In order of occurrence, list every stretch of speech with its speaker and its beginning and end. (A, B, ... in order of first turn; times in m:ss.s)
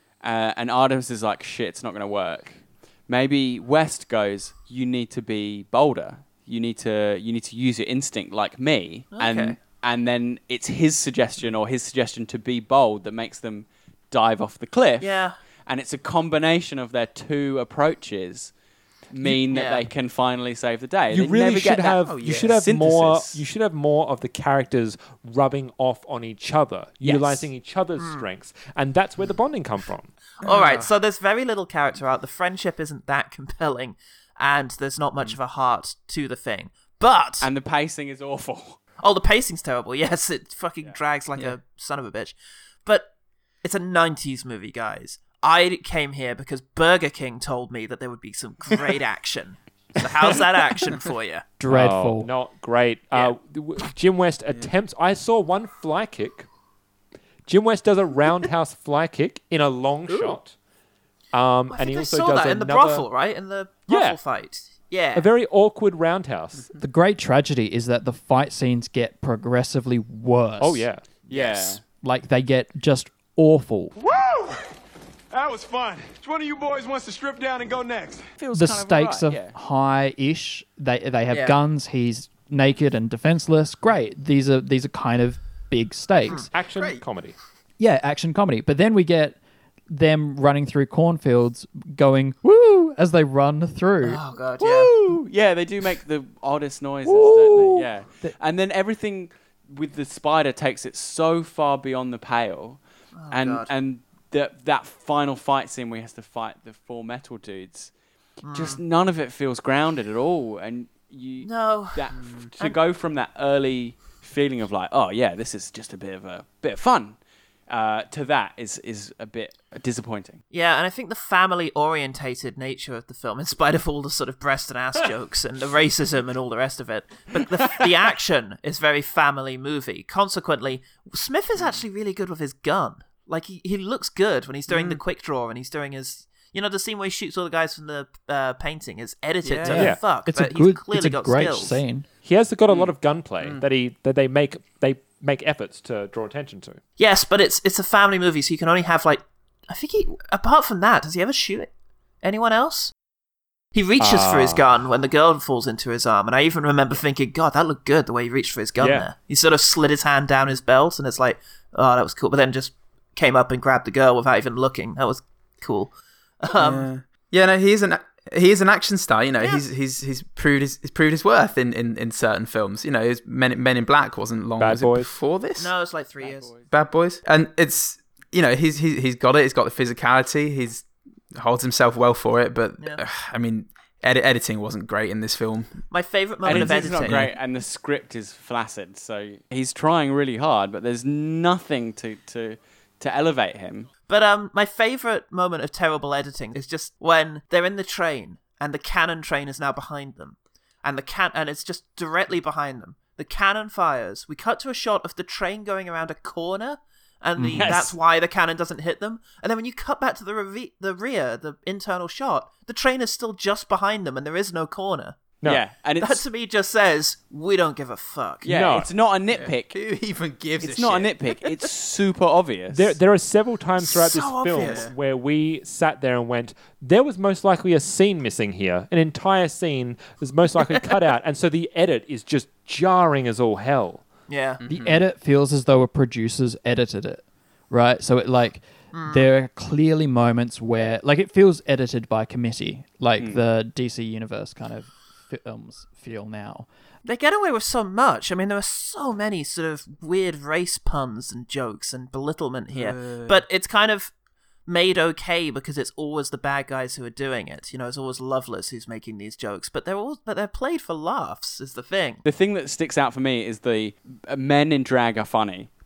0:00.2-0:18.5 A
0:09.1-0:09.6 B
0:15.0-0:15.4 B
0:19.1-0:23.4 A
0:19.5-0:19.8 B
0:21.1-0:30.1 C
0:22.0-0:22.6 D
0:27.0-0:27.5 A
0:28.0-0:28.2 B
0:30.4-0:37.5 B
0:30.4-0:30.9 D
0:37.4-0:38.8 A
0:39.0-0:42.4 B
0:43.6-0:51.4 B
0:51.6-0:52.3 E
0:51.7-0:56.5 C
0:57.4-1:00.6 C
1:01.3-1:03.1 C
1:01.7-1:05.3 B
1:03.9-1:04.2 C
1:05.1-1:06.7 C
1:06.8-1:10.9 E
1:10.6-1:11.0 C
1:11.3-1:11.8 A
1:11.3-1:11.8 B
1:11.8-1:13.9 E
1:14.0-1:14.7 F
1:15.3-1:18.2 F
1:18.4-1:19.6 A
1:18.5-1:26.5 E
1:21.3-1:21.6 B
1:26.5-1:27.4 C
1:26.7-1:27.0 D
1:27.8-1:29.4 E
1:29.9-1:34.2 E
1:34.0-1:34.9 B
1:34.6-1:47.9 A
1:37.1-1:38.4 E
1:43.2-1:43.7 B
1:48.4-1:48.8 B
1:48.5-1:57.2 A
1:51.4-1:52.0 B
1:52.2-1:52.5 D
1:57.7-2:00.4 A
2:00.5-2:21.8 B
2:11.6-2:11.8 D
2:14.7-2:15.0 D
2:19.4-2:19.9 D
2:19.7-2:22.1 E
2:19.8-2:20.0 C
2:22.2-2:26.8 C
2:22.7-2:23.6 D
2:27.0-2:31.7 B
2:32.2-2:32.9 B
2:33.7-2:46.9 B
2:34.0-2:34.6 C
2:38.8-2:39.1 C
2:46.6-2:55.7 D
2:49.4-2:49.6 B
2:54.6-2:55.1 C
2:55.6-2:56.5 B
2:56.2-2:56.7 A
2:56.7-3:05.8 D
3:05.9-3:07.3 B
3:06.4-3:13.9 A
3:06.5-3:07.3 D
3:14.1-3:35.2 B
3:27.6-3:27.9 A
3:35.4-3:36.2 A
3:36.0-3:38.5 B
3:38.4-3:39.8 A
3:38.5-3:38.9 C
3:39.3-3:41.1 D
3:40.6-3:43.0 A
3:42.7-3:54.1 C
3:43.8-3:44.9 B
3:44.6-3:44.9 D
3:54.3-3:54.6 B
3:54.6-3:55.1 D
3:54.7-4:06.7 E
3:58.9-3:59.3 B
4:03.2-4:03.4 A
4:07.0-4:14.1 B
4:12.7-4:13.4 D
4:14.7-4:22.2 B
4:22.2-4:25.7 A